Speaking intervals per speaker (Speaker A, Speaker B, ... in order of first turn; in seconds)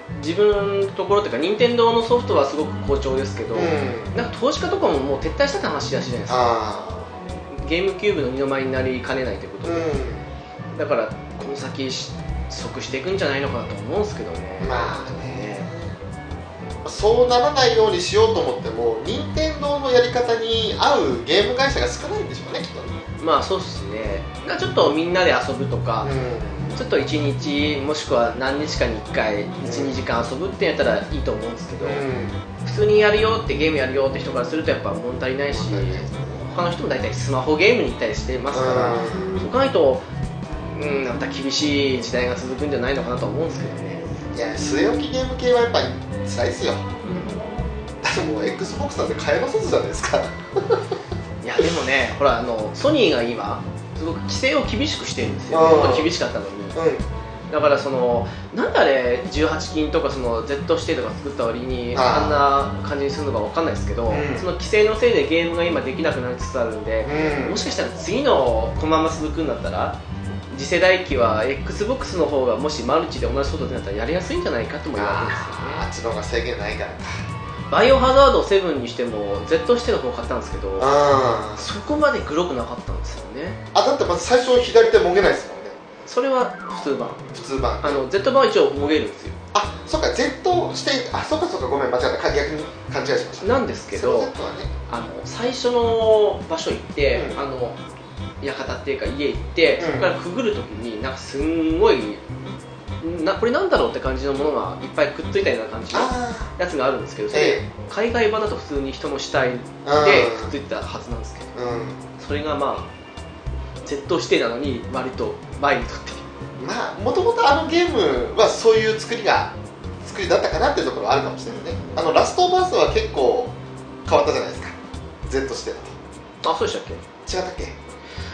Speaker A: 0.1-6.6, 7.5-9.9, 10.7-15.7, 23.2-26.1, 26.7-32.0, 32.6-40.0, 40.6-44.1, 47.0-47.5, 51.4-56.8, 57.5-70.0, 70.5-75.8, 77.7-81.0, 81.5-83.6, 86.1-87.3, 87.8-89.4, 93.4-94.3, 94.9-97.8, 98.4-102.2, 103.0-111.6, 112.2-112.9, 113.8-116.2, 121.6-122.0, 126.4-127.0
Speaker B: 3.5-4.2, 6.3-7.1, 9.6-10.2, 14.6-15.8, 16.8-23.0, 26.0-26.7, 29.6-30.0, 31.8-32.4, 35.5-36.4, 38.5-39.4, 44.3-46.9, 48.0-50.9, 55.5-56.1, 56.7-57.0, 61.9-62.4, 64.1-64.5, 67.0-67.6, 74.9-77.2, 80.8-81.6, 83.7-85.8, 87.3-88.0, 89.5-94.7, 99.8-100.1, 105.9-106.5, 107.3-107.7, 109.8-110.5, 111.5-112.0, 116.6-123.5, 124.0-125.9, 127.2-127.8